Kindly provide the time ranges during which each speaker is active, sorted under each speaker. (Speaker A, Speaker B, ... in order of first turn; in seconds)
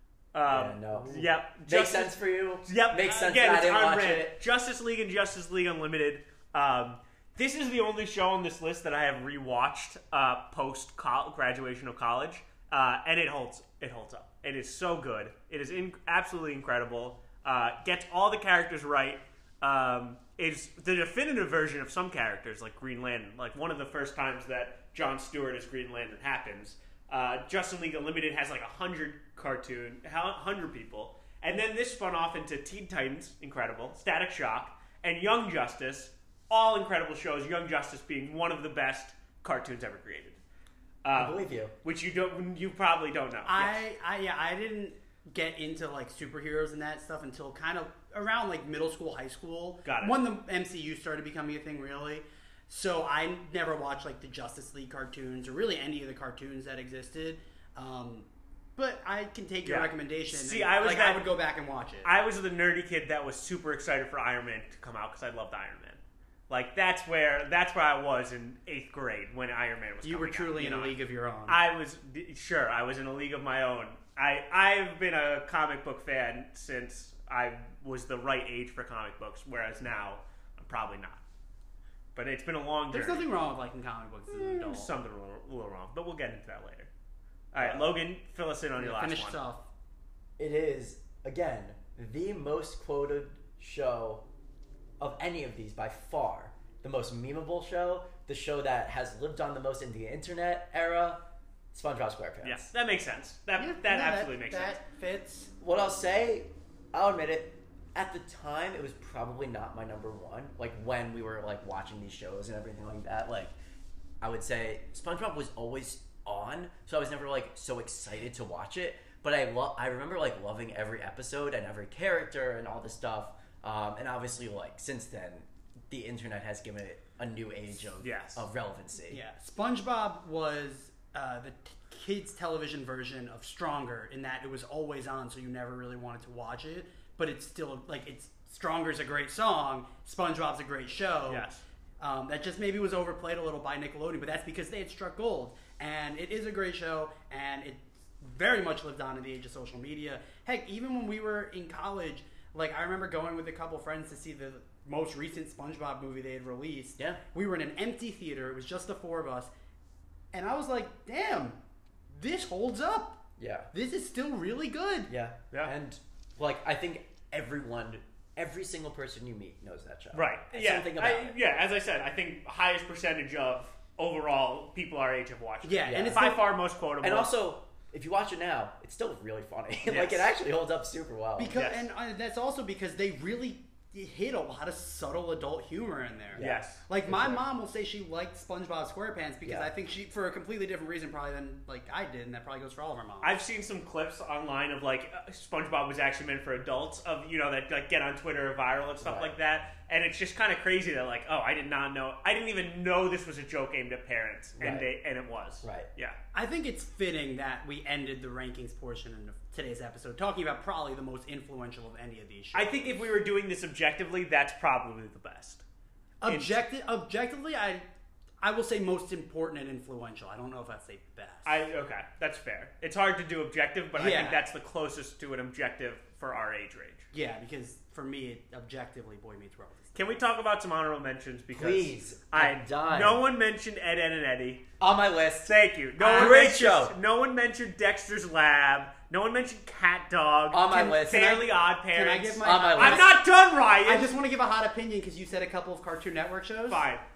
Speaker A: 0.3-40.4, 41.0-43.8, 49.9-50.1, 59.6-61.3, 62.0-71.0, 71.5-81.2, 82.1-83.3, 84.3-86.9, 87.5-89.4, 102.4-104.8, 128.0-128.4, 141.3-141.6, 170.1-177.3, 179.9-180.3, 181.5-181.9, 186.4-186.8, 193.2-206.2, 212.5-215.6, 216.3-216.6, 221.4-227.1, 229.9-234.6, 235.5-244.1, 246.7-247.0
Speaker B: 0.5-4.4, 41.1-41.7, 87.6-88.0, 90.4-94.2, 95.0-101.2, 101.7-102.7, 105.6-113.5, 114.2-129.2, 163.4-163.7, 165.1-171.4, 175.9-176.3, 177.0-181.6, 186.3-187.4, 189.4-189.7, 199.0-199.3, 204.6-204.9, 205.6-205.9, 231.5-233.2, 234.8-235.5, 236.0-237.0, 240.5-241.4, 242.4-243.1
Speaker C: 43.5-58.3, 58.8-62.1, 70.0-71.6, 82.9-84.9, 88.8-89.7, 103.6-105.5, 129.1-141.5, 142.0-159.5, 160.3-161.6, 162.1-163.2, 163.7-165.1, 175.6-176.4, 181.4-193.4, 206.3-213.1, 216.2-217.8, 218.4-221.6, 223.9-224.4, 227.1-229.9, 236.0-236.4, 240.7-243.2, 243.8-246.8